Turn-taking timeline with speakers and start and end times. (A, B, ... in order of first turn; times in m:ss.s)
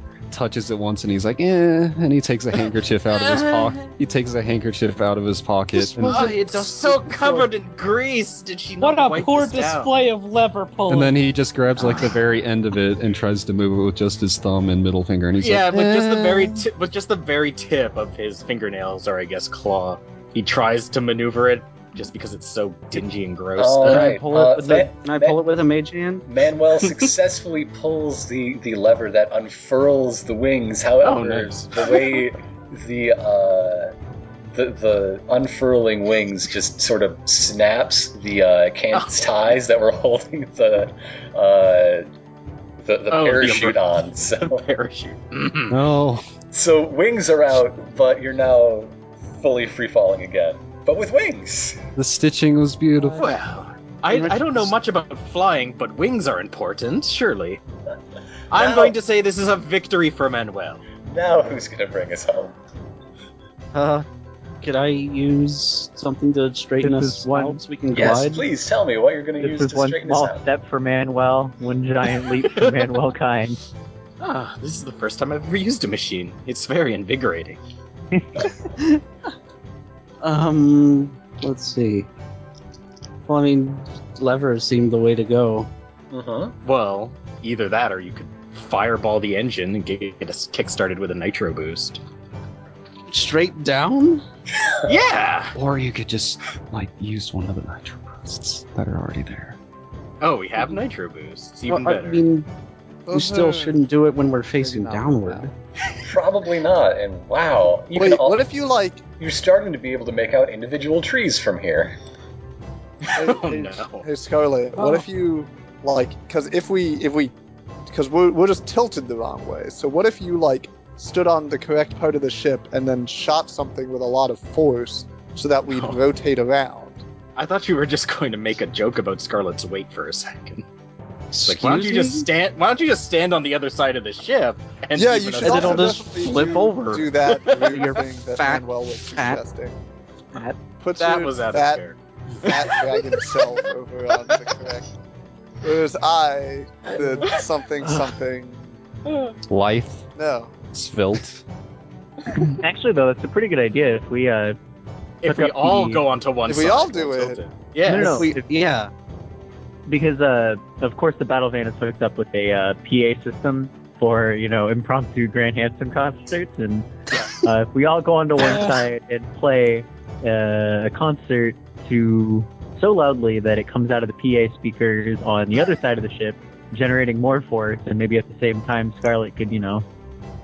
0:00.3-0:06.3 A
0:03.1-0:03.8 B
0:05.8-0:07.5 C
0:06.0-0:10.0 B
0:08.8-0:11.2 D
0:10.9-0:16.7 A
0:15.4-0:24.2 B
0:23.6-0:25.4 E
0:23.8-0:26.2 C
0:26.2-0:33.9 E
0:31.0-0:32.1 B
0:34.6-0:42.0 E
0:42.8-0:44.6 E
0:43.1-0:45.8 B
0:45.7-0:46.2 A
0:46.5-0:51.8 E
0:52.0-0:53.3 A
0:53.2-0:57.6 B
0:54.1-0:54.7 C
0:58.5-1:00.8 B
0:58.5-0:59.0 E
1:01.0-1:02.6 E
1:03.7-1:04.0 C
1:04.6-1:08.4 C
1:06.8-1:08.2 F
1:07.9-1:10.4 E
1:09.4-1:13.6 F
1:12.4-1:12.8 B
1:14.2-1:17.6 B
1:20.2-1:22.1 C
1:23.3-1:25.7 C
1:26.1-1:26.5 E
1:26.6-1:32.0 B
1:33.1-1:34.2 C
1:34.9-1:35.5 B
1:35.5-1:39.6 A
1:40.2-1:42.2 B
1:41.7-1:42.5 C
1:43.0-1:43.8 G
1:43.1-1:45.5 C
1:44.6-1:45.5 G
1:46.0-1:48.4 E
1:47.9-1:49.0 G
1:49.2-1:52.0 E
1:53.0-1:54.1 B
1:53.1-1:57.3 G
1:54.8-1:55.0 D
1:57.9-2:07.0 G
2:05.7-2:06.0 B
2:07.4-2:10.6 B
2:11.3-2:12.3 C
2:11.4-2:16.1 B
2:14.9-2:19.8 G
2:15.4-2:19.4 C
2:17.3-2:17.8 B
2:20.8-2:21.8 G
2:21.0-2:23.4 B
2:22.4-2:24.9 G
2:25.6-2:28.8 G
2:29.5-2:30.0 A
2:30.2-2:30.5 G
2:30.7-2:31.4 A
2:32.6-2:34.6 F
2:35.2-2:38.3 B
2:35.2-2:36.0 F
2:36.4-2:37.4 G
2:37.9-2:38.4 F
2:37.9-2:38.9 C
2:39.9-2:59.8 F
2:48.5-2:48.8 D